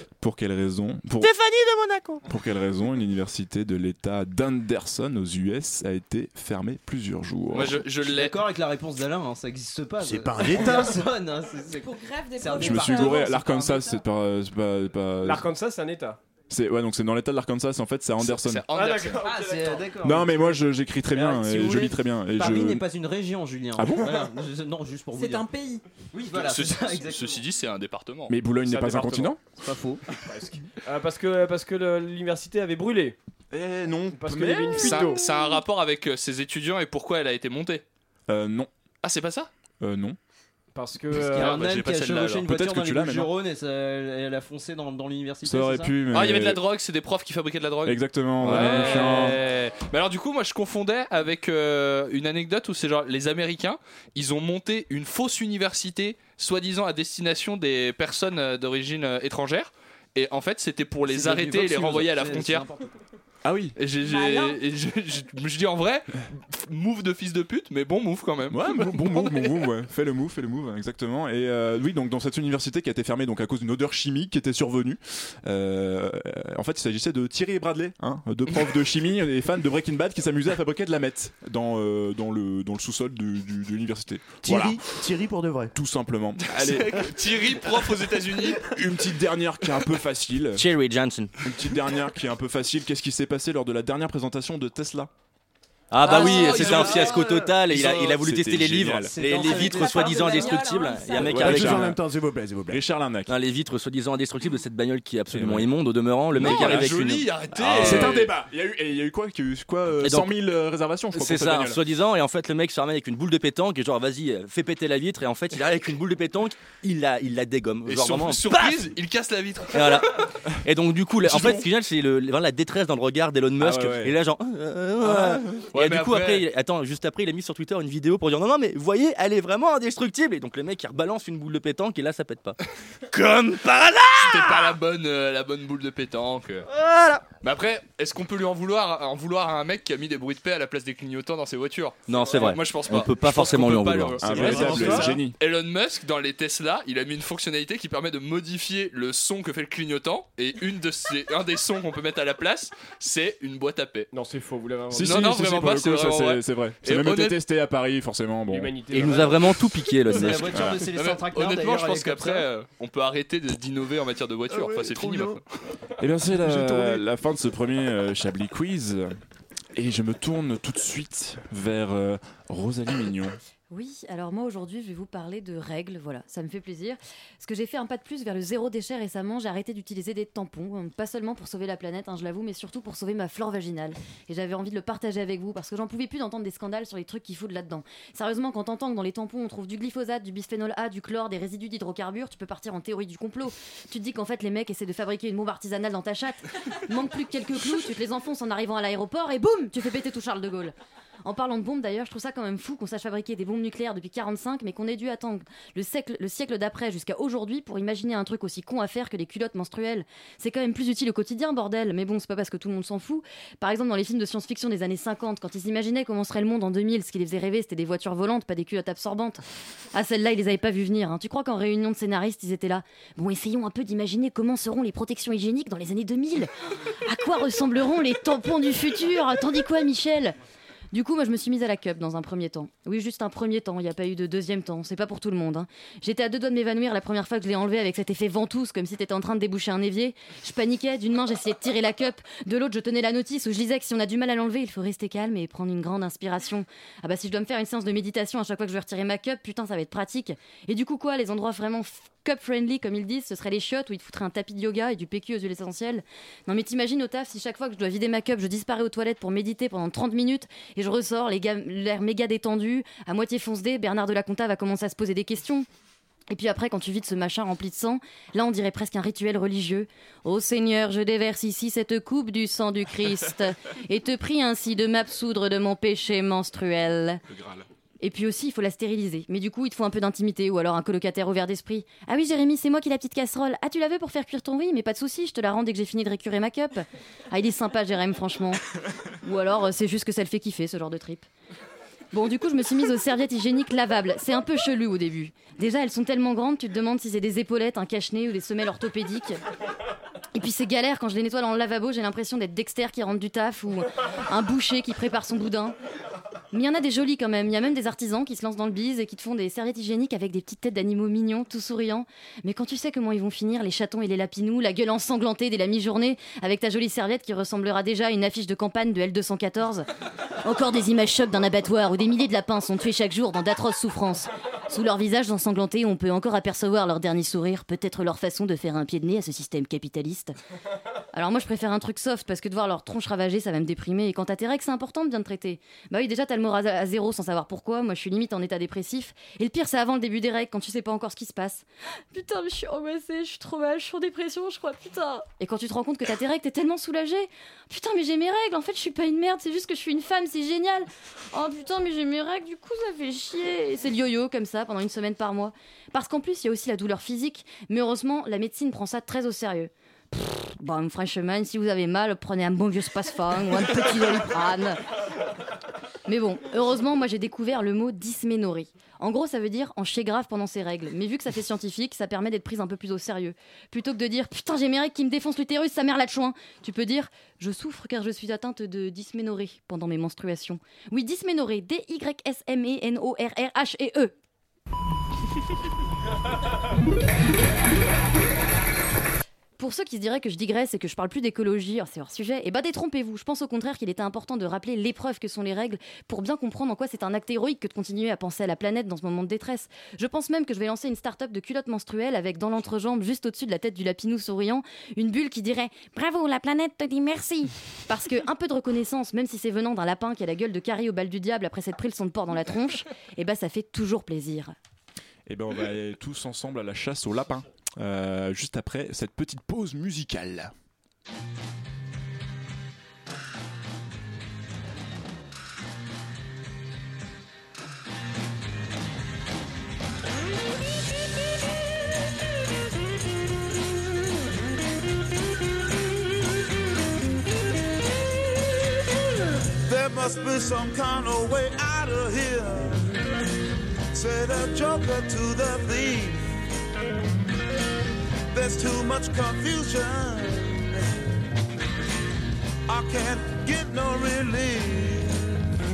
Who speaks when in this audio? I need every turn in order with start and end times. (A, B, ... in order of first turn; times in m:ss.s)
0:00.2-0:01.3 A
0:01.2-0:02.2 B
0:02.3-0:07.8 A
0:07.5-0:08.4 C
0:08.0-0:13.7 D
0:10.0-0:11.0 E
0:11.8-0:14.0 F
0:12.6-0:15.5 A
0:15.2-0:16.2 G
0:16.5-0:18.6 A
0:18.2-0:19.2 C
0:18.7-0:19.9 G
0:19.2-0:20.6 D
0:20.0-0:22.8 A
0:21.1-0:25.5 D
0:23.8-0:24.2 A
0:25.1-0:25.8 F
0:26.1-0:27.4 D
0:26.3-0:28.3 C
0:28.3-0:29.4 A
0:28.7-0:29.4 G
0:29.6-0:30.0 D
0:30.3-0:33.2 G
0:33.5-0:35.2 A
0:34.1-0:35.2 G
0:34.8-0:37.8 C
0:38.3-0:38.7 A
0:39.0-0:39.5 C
0:39.8-0:40.2 A
0:40.7-0:41.6 G
0:41.1-0:45.9 D
0:41.4-0:42.4 C
0:42.5-0:43.3 A
0:45.4-0:46.6 A
0:46.1-1:02.7 C
0:47.9-0:49.4 A
1:01.1-1:02.9 D
1:03.4-1:03.8 A
1:03.8-1:09.6 C
1:04.0-1:04.6 F
1:08.5-1:24.8 A
1:24.4-1:25.7 E
1:25.7-1:27.3 A
1:26.5-1:28.7 C
1:28.6-1:30.7 A
1:30.6-1:31.3 B
1:31.4-1:35.1 A
1:35.9-1:41.9 B
1:36.0-1:37.2 C
1:36.1-1:37.5 G
1:37.6-1:39.2 A
1:39.1-1:40.9 D
1:39.7-1:41.3 F
1:41.2-1:42.0 A
1:41.4-1:42.8 E
1:42.7-1:43.3 A
1:43.3-1:48.0 B
1:45.3-1:45.7 A
1:46.3-1:47.0 A
1:46.4-1:48.3 C
1:47.6-1:51.8 A
1:50.0-1:50.3 B
1:51.1-1:58.9 B
1:57.8-2:00.2 C
1:59.7-2:12.6 B
2:01.2-2:01.6 A
2:03.6-2:04.2 A
2:05.0-2:06.5 C
2:13.1-2:14.6 B
2:14.2-2:16.7 C
2:16.8-2:17.2 B
2:17.4-2:34.1 C
2:22.1-2:24.8 B
2:24.2-2:25.4 A
2:24.4-2:25.2 G
2:34.1-2:35.2 G
2:34.9-2:38.7 A
2:35.0-2:37.4 C
2:38.5-2:39.5 G
2:38.9-2:40.6 B
2:40.1-2:42.5 D
2:40.5-2:40.8 A
2:40.8-2:45.4 C
2:44.8-2:45.2 E
2:46.0-2:49.1 A
2:49.8-2:53.4 A
2:53.7-3:39.4 H
3:39.9-3:46.5 H
3:47.1-3:50.4 H
3:50.9-4:25.7 H
4:26.3-4:37.2 H
4:38.0-4:48.6 H
4:49.2-4:51.3 H
4:52.1-4:59.4 H
5:00.4-5:05.8 H
5:06.5-5:19.9 H
5:20.4-5:30.4 H
5:31.1-6:04.8 H
6:06.1-6:24.1 H
6:29.6-6:54.5 H
6:55.3-7:00.5 A
7:19.6-7:22.9 I
7:23.9-7:26.2 I
7:28.3-7:30.9 I
7:32.7-7:35.3 I